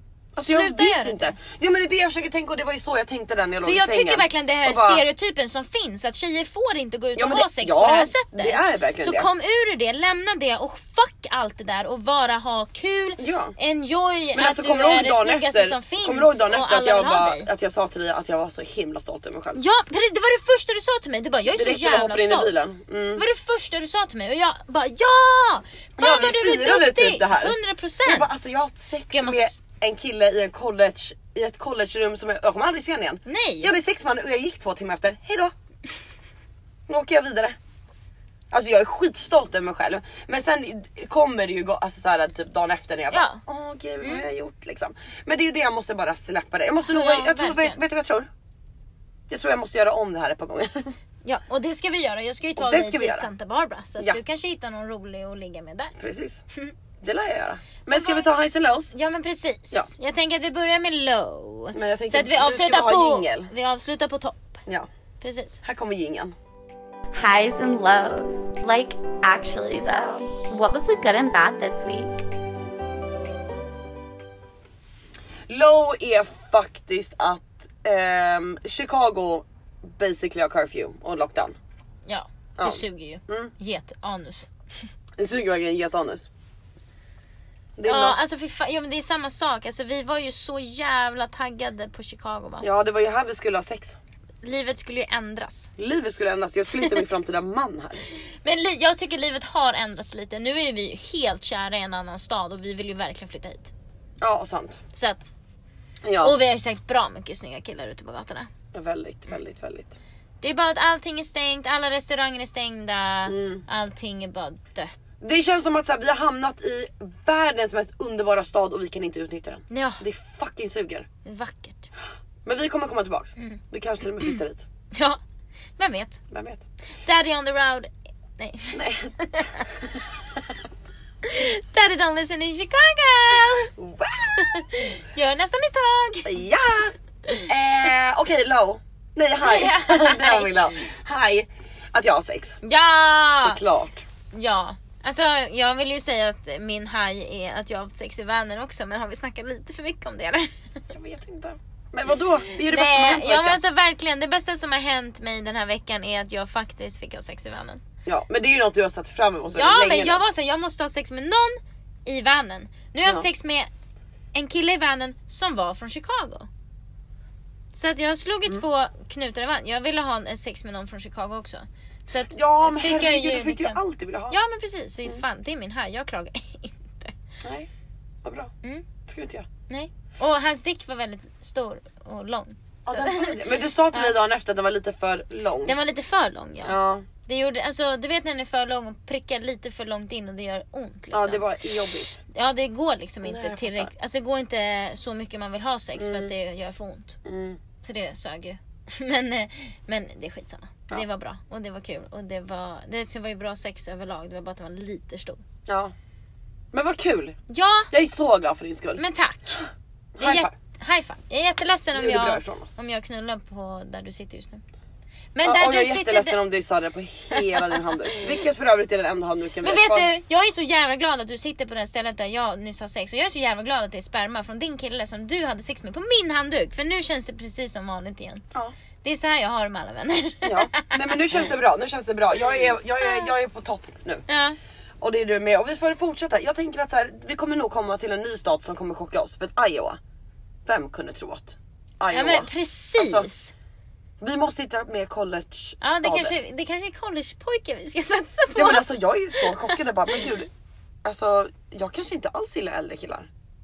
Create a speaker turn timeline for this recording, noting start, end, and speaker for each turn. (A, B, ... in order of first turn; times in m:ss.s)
0:00.4-0:05.0 A
0:00.4-0:01.4 B
0:03.6-0:17.5 B
0:07.2-0:09.3 A
0:13.2-0:13.6 A
0:14.4-0:19.6 A
0:19.6-0:22.6 B
0:21.5-0:23.2 A
0:23.2-0:28.3 B
0:26.0-0:35.5 A
0:29.1-0:29.6 B
0:33.3-0:33.7 B
0:36.9-0:37.6 A
0:38.5-0:48.3 A
0:43.1-0:43.4 B
0:44.0-0:44.3 B
0:46.9-0:47.8 B
0:49.3-0:50.9 A
0:51.2-0:56.0 B
0:52.6-0:53.3 A
0:56.0-0:56.4 A
0:57.0-0:58.9 A
0:57.9-0:58.3 B
0:58.9-1:04.6 B
1:01.7-1:03.5 A
1:05.2-1:05.6 B
1:05.6-1:06.4 A
1:07.1-1:12.2 C
1:15.5-1:21.6 A
1:22.1-1:24.9 B
1:22.6-1:23.5 A
1:25.2-1:26.3 A
1:27.8-1:28.2 A
1:27.8-1:32.7 B
1:32.6-1:34.0 A
1:34.4-1:35.7 B
1:35.8-1:38.0 A
1:38.4-1:43.7 B
1:44.2-1:44.8 A
1:44.9-1:45.3 B
1:46.0-1:46.4 A
1:46.2-1:48.5 B
1:48.7-1:50.0 A
1:50.4-1:55.0 B
1:53.3-1:53.6 A
1:55.2-2:01.1 A
1:59.7-2:00.0 B
2:01.2-2:01.9 B
2:02.4-2:04.7 A
2:04.9-2:05.2 B
2:05.8-2:06.2 B
2:06.3-2:06.6 A
2:07.0-2:09.6 B
2:08.7-2:09.5 A
2:11.2-2:13.7 B
2:13.8-2:14.9 A
2:14.4-2:16.4 B
2:16.2-2:22.6 A
2:19.4-2:20.6 B
2:22.6-2:23.6 B
2:23.4-2:24.0 A
2:24.3-2:30.6 B
2:30.9-2:33.6 A
2:32.6-2:37.8 B
2:38.1-2:40.2 A
2:39.5-2:43.7 B
2:44.3-2:46.5 B
2:47.7-2:57.1 B
2:52.3-2:54.4 A
2:57.4-2:57.7 A
2:58.2-2:58.5 A
2:59.1-2:59.5 A
2:59.7-3:04.1 B
3:02.8-3:05.8 A
3:05.7-3:11.5 B
3:06.6-3:07.1 A
3:11.1-3:12.2 A
3:12.3-3:17.2 B
3:13.2-3:13.9 A
3:16.0-3:16.3 A
3:17.2-3:17.6 A
3:17.8-3:25.4 B
3:25.7-3:25.9 A
3:26.7-3:27.4 A
3:27.5-3:27.9 B
3:27.9-3:29.0 A
3:29.0-3:29.6 B
3:30.2-3:30.5 A
3:30.2-3:34.6 B
3:31.9-3:32.8 A
3:35.3-3:36.4 B
3:35.4-3:40.1 A
3:37.3-3:38.3 B
3:39.6-3:48.4 B
3:49.0-3:51.4 B
3:50.4-3:54.2 A
3:53.0-3:53.3 B
3:54.3-3:54.6 B
3:55.0-4:00.0 A
4:00.7-4:03.3 A
4:02.1-4:03.5 B
4:04.2-4:06.4 A
4:05.8-4:09.8 B
4:08.5-4:10.5 A
4:11.0-4:13.3 A